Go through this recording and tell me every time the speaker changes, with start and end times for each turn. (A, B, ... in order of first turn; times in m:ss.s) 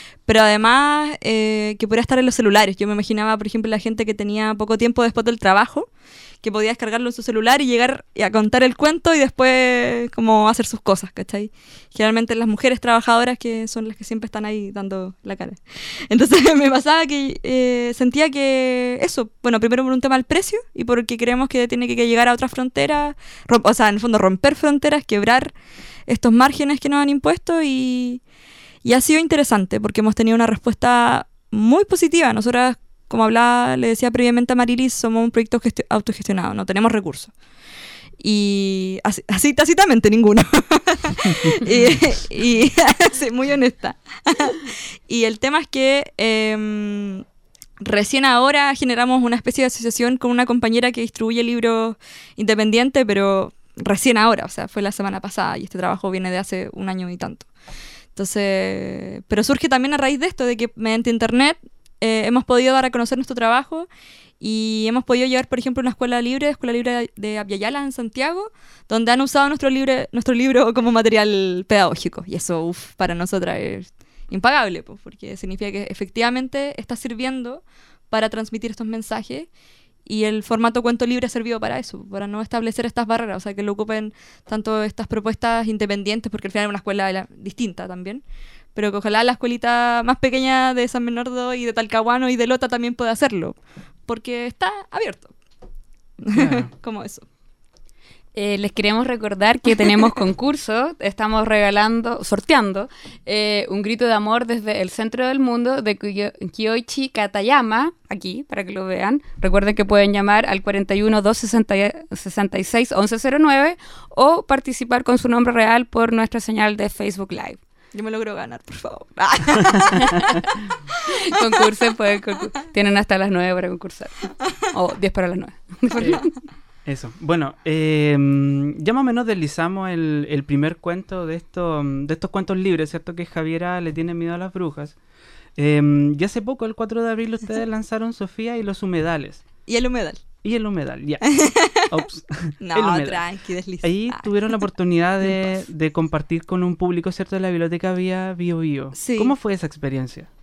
0:00.3-0:05.9 A
0:06.4-0:25.5 A
0:26.1-0:28.2 A
0:28.8-0:37.3 A
0:38.2-0:47.2 A
0:47.8-0:57.5 A
0:58.1-1:03.9 A
1:04.4-1:19.5 A
1:20.0-1:28.2 A
1:28.7-1:33.6 A
1:34.1-1:35.3 A
1:36.2-1:37.3 A
1:36.4-1:36.7 B
1:38.3-1:57.6 C
1:57.9-2:00.2 A
2:00.0-2:00.4 C
2:01.1-2:06.3 C
2:06.0-2:06.3 B
2:06.8-2:15.0 B
2:15.6-2:19.4 B
2:19.7-2:20.2 A
2:20.4-2:23.2 B
2:21.3-2:21.8 A
2:22.6-2:24.6 A
2:23.8-2:30.3 B
2:25.2-2:25.6 A
2:29.0-2:29.3 A